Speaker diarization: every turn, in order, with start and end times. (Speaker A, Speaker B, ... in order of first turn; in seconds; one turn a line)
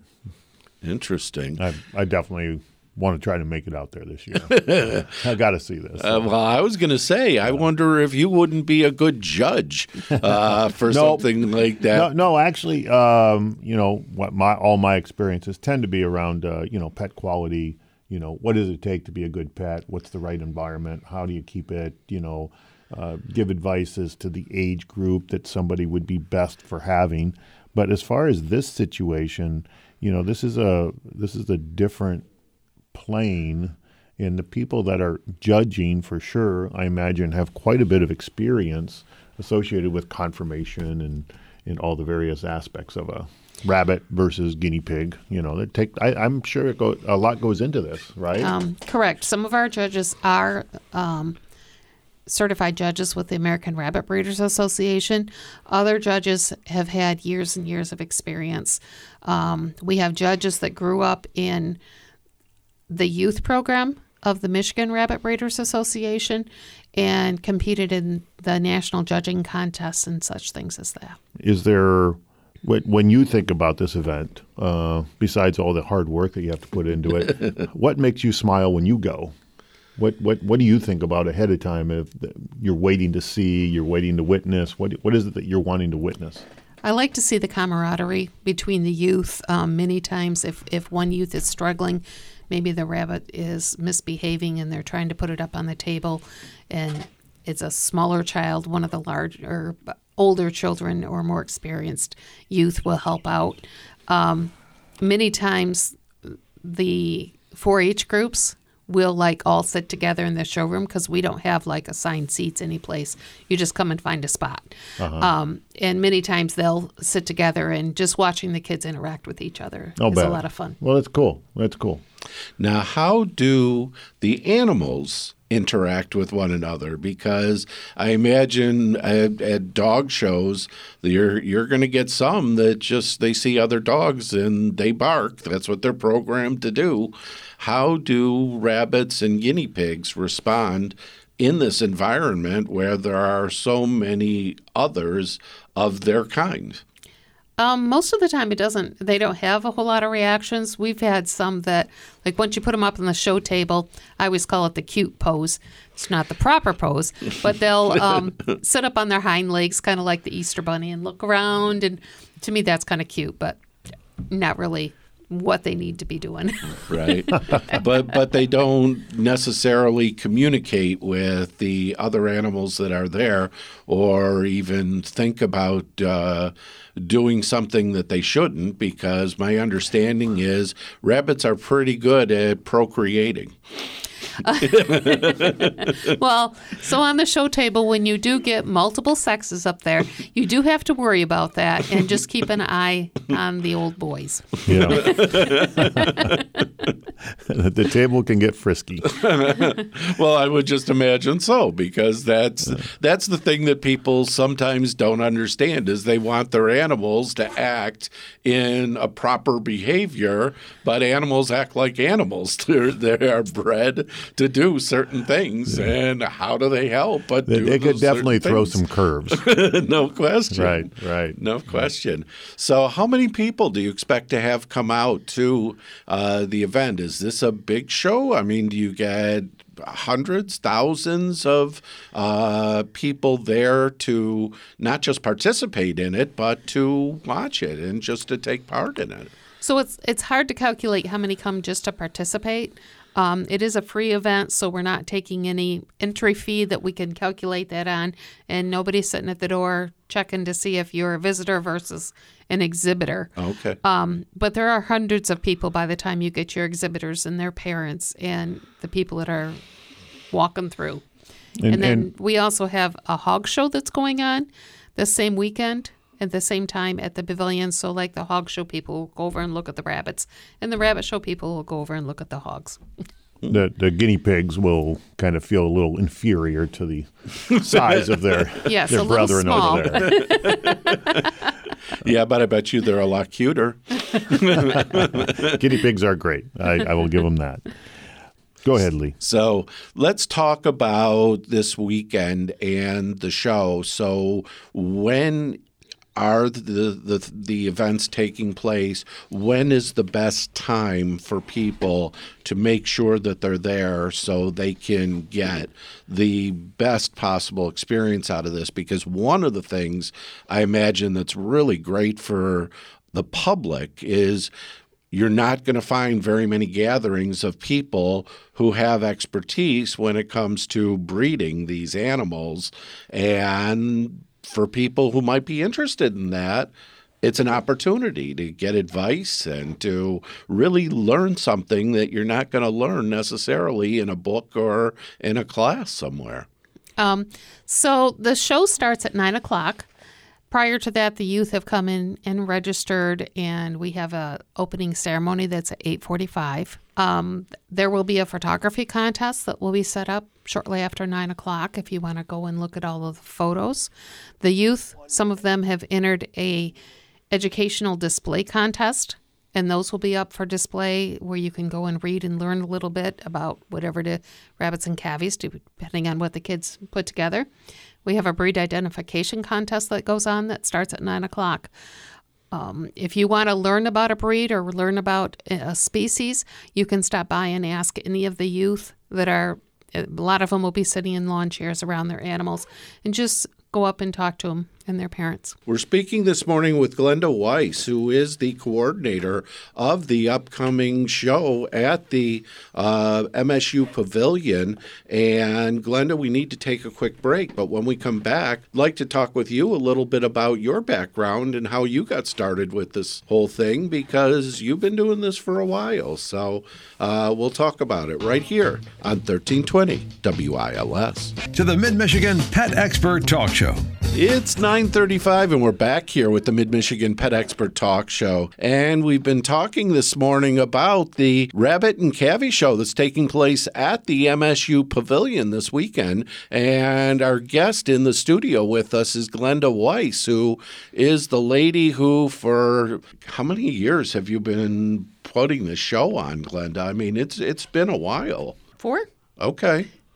Speaker A: 0.8-1.6
Speaker B: 1.6-6.3
Speaker A: 4.5-5.2
Speaker A: 6.0-12.1
Speaker B: 10.9-11.3
Speaker B: 11.9-32.3
Speaker B: 32.9-48.5
Speaker C: 48.4-51.4
Speaker C: 52.3-61.8
Speaker C: 62.9-71.2
Speaker B: 71.4-79.3
Speaker B: 80.0-86.4
Speaker C: 86.8-120.8
Speaker B: 115.0-115.3
Speaker B: 120.0-122.0
Speaker A: 122.6-146.8
Speaker C: 147.6-163.6
Speaker C: 164.3-167.8
Speaker A: 166.9-183.6
Speaker C: 184.4-196.3
Speaker A: 184.6-186.0
Speaker B: 194.7-196.0
Speaker A: 194.9-196.4
Speaker B: 197.5-199.1
Speaker A: 199.1-239.3
Speaker B: 217.5-219.5
Speaker B: 220.5-221.4
Speaker C: 239.6-253.3
Speaker A: 253.4-253.8
Speaker C: 253.8-259.6
Speaker C: 260.3-261.1
Speaker B: 261.6-262.1
Speaker C: 261.7-272.8
Speaker B: 273.5-280.3
Speaker A: 277.5-278.5
Speaker C: 278.6-281.2
Speaker A: 280.0-281.2
Speaker A: 282.0-285.6
Speaker B: 284.8-287.7
Speaker B: 288.6-289.2
Speaker A: 289.2-295.6
Speaker A: 296.2-314.5
Speaker A: 315.1-336.5
Speaker C: 337.0-339.9
Speaker C: 340.5-353.9
Speaker C: 354.4-356.7
Speaker C: 357.3-367.5
Speaker C: 368.0-371.7
Speaker C: 372.5-385.6
Speaker A: 385.7-411.4
Speaker D: 411.5-413.8
Speaker A: 414.1-438.6
Speaker C: 438.8-439.1
Speaker A: 439.4-439.9